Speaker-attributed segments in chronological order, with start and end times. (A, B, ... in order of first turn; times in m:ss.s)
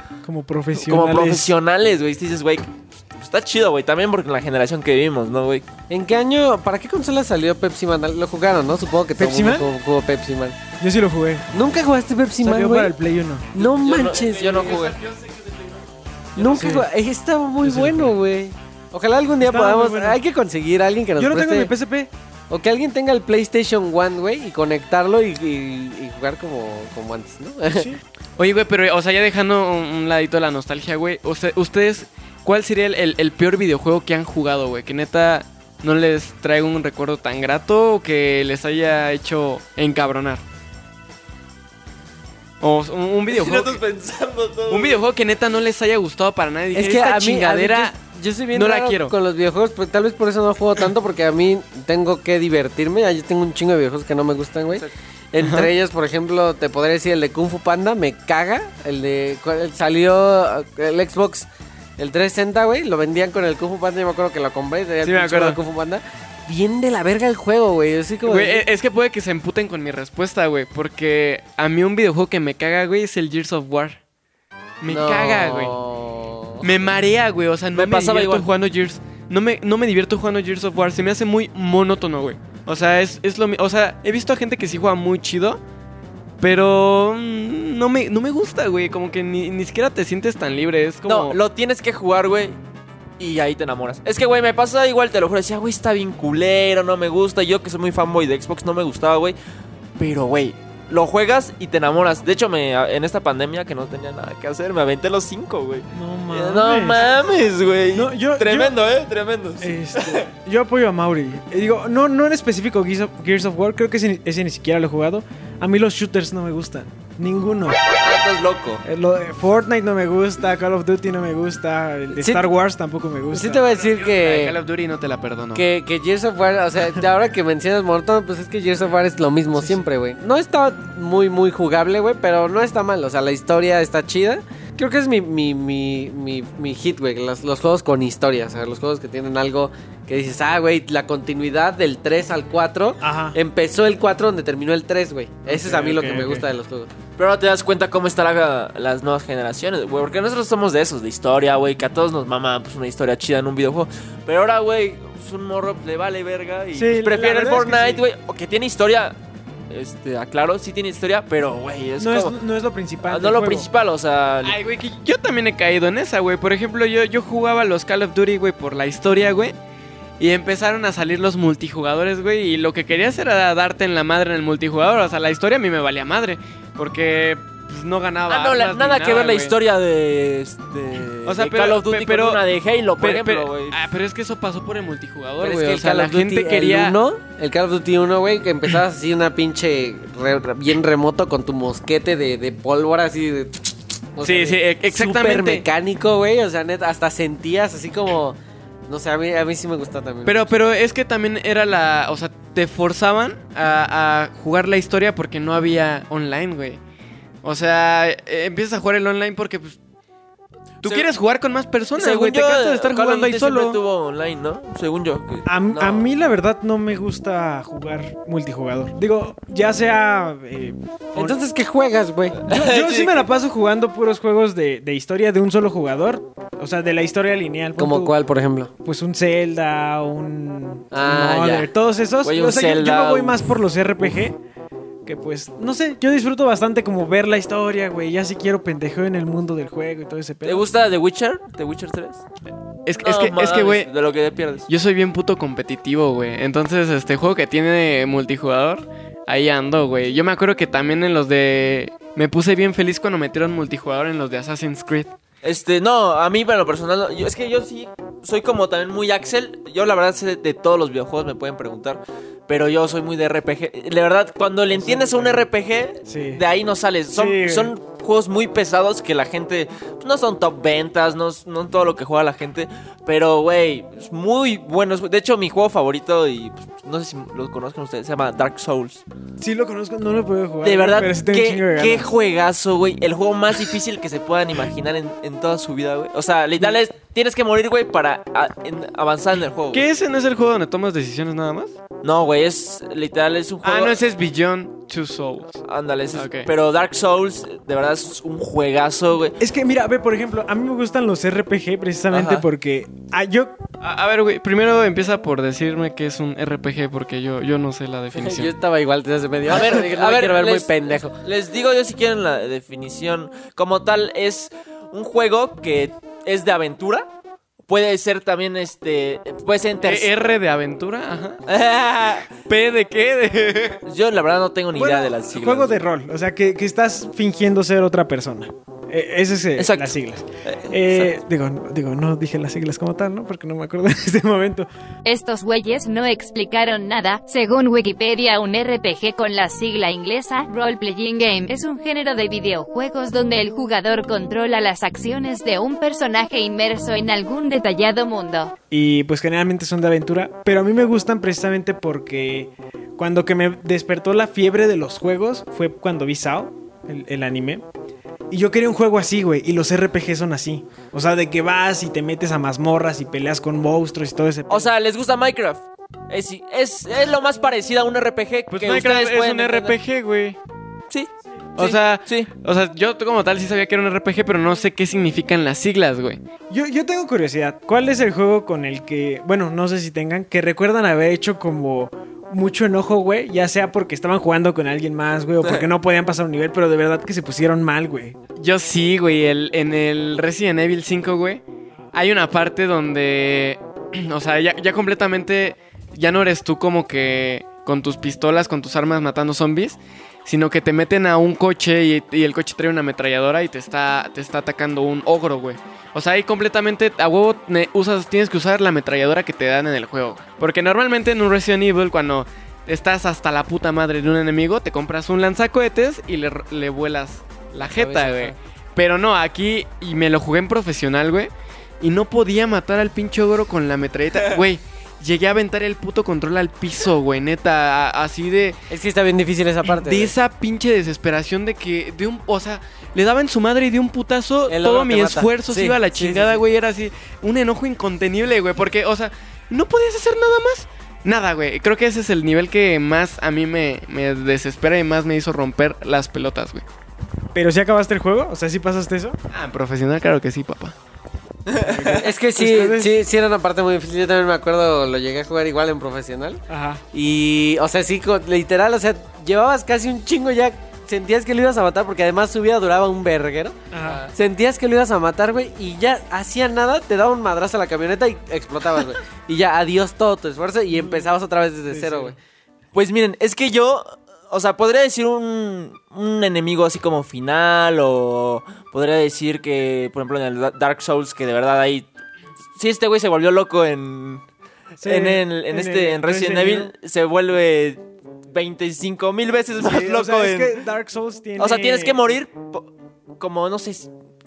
0:00.2-0:01.5 A
0:00.8-0:05.6 B
0:05.9-0:10.6 C
0:09.2-0:09.7 A
0:10.8-0:11.5 A
0:11.5-0:12.9 C
0:12.4-0:13.5 A
0:13.5-0:14.7 C
0:13.6-0:15.0 B
0:14.1-0:15.7 D
0:16.4-0:21.7 C
0:16.4-0:16.9 A
0:17.6-0:18.1 A
0:19.4-0:20.2 A
0:21.2-0:22.1 A
0:22.5-0:27.9 C
0:27.8-0:28.0 A
0:28.4-0:40.4 D
0:42.6-0:43.8 D
0:43.3-0:45.0 B
0:44.7-0:47.9 D
0:46.7-1:08.6 C
0:48.5-0:49.1 D
0:55.4-0:55.7 D
1:05.0-1:05.6 D
1:08.2-1:14.0 D
1:14.8-1:15.7 D
1:14.9-1:16.6 C
1:16.6-1:25.6 D
1:17.7-1:18.5 B
1:26.4-1:31.3 D
1:31.0-1:32.6 B
1:33.2-1:39.4 B
1:40.0-1:50.2 B
1:45.9-1:47.1 A
1:47.9-1:48.8 A
1:49.6-1:57.8 A
1:58.0-1:58.8 B
1:58.8-2:03.6 A
2:02.1-2:02.5 C
2:03.3-2:04.5 C
2:03.7-2:05.6 D
2:05.5-2:26.9 C
2:09.5-2:09.8 A
2:23.0-2:23.4 A
2:25.5-2:26.5 A
2:27.2-2:39.2 B
2:36.7-2:38.0 A
2:39.7-2:42.3 B
2:42.0-2:43.7 A
2:43.1-2:44.6 B
2:44.4-2:49.5 D
2:50.2-2:59.5 D
2:58.3-3:03.8 B
3:01.2-3:02.4 D
3:03.0-3:07.0 D
3:05.4-3:18.4 C
3:14.2-3:15.6 D
3:18.9-3:20.5 C
3:20.2-3:26.8 D
3:27.4-3:29.8 D
3:30.8-3:31.1 B
3:30.8-3:33.8 D
3:32.0-3:36.1 B
3:35.4-3:40.8 A
3:41.1-3:42.4 C
3:42.4-3:48.2 A
3:42.4-3:43.3 B
3:47.8-3:48.7 C
3:48.8-3:54.4 A
3:50.9-3:51.7 C
3:52.2-3:53.4 B
3:55.0-4:00.6 A
4:00.4-4:02.2 B
4:02.8-4:03.9 D
4:03.0-4:04.7 B
4:04.7-4:15.1 D
4:15.4-4:39.0 B
4:24.7-4:25.4 A
4:26.1-4:26.4 A
4:27.1-4:27.7 A
4:39.4-4:42.1 A
4:40.6-4:49.8 B
4:49.7-4:51.7 D
4:52.0-4:54.0 B
4:53.6-4:55.6 D
4:55.6-4:59.4 B
4:56.1-4:56.5 D
4:59.4-5:03.6 A
5:03.8-5:08.5 D
5:08.1-5:11.2 C
5:09.5-5:17.1 B
5:17.6-5:20.1 B
5:19.8-5:21.4 D
5:21.5-5:22.3 B
5:22.5-5:23.8 D
5:23.8-5:25.8 B
5:24.7-5:34.7 A
5:29.6-5:31.2 B
5:35.0-5:48.5 E
5:48.7-5:57.6 A
5:58.3-6:04.7 A
6:04.5-6:09.8 B
6:08.5-6:10.4 D
6:10.9-6:12.3 B
6:11.6-6:16.2 D
6:16.5-6:28.2 A
6:25.4-6:25.7 B
6:28.4-7:08.6 D
6:57.5-6:58.4 C
7:08.7-7:10.1 C
7:09.6-7:26.6 D
7:14.5-7:16.4 C
7:27.3-7:29.2 A
7:29.3-7:30.7 D
7:31.5-7:32.0 B
7:31.6-7:33.0 A
7:32.0-7:36.4 C
7:36.5-7:36.8 A
7:36.9-7:52.2 C
7:43.7-7:44.1 A
7:50.7-7:51.1 A
7:51.7-7:52.1 A
7:52.7-8:01.9 B
8:02.6-8:04.2 B
8:04.8-8:06.7 A
8:04.8-8:10.5 B
8:09.6-8:12.0 A
8:11.4-8:12.7 B
8:13.2-8:13.9 B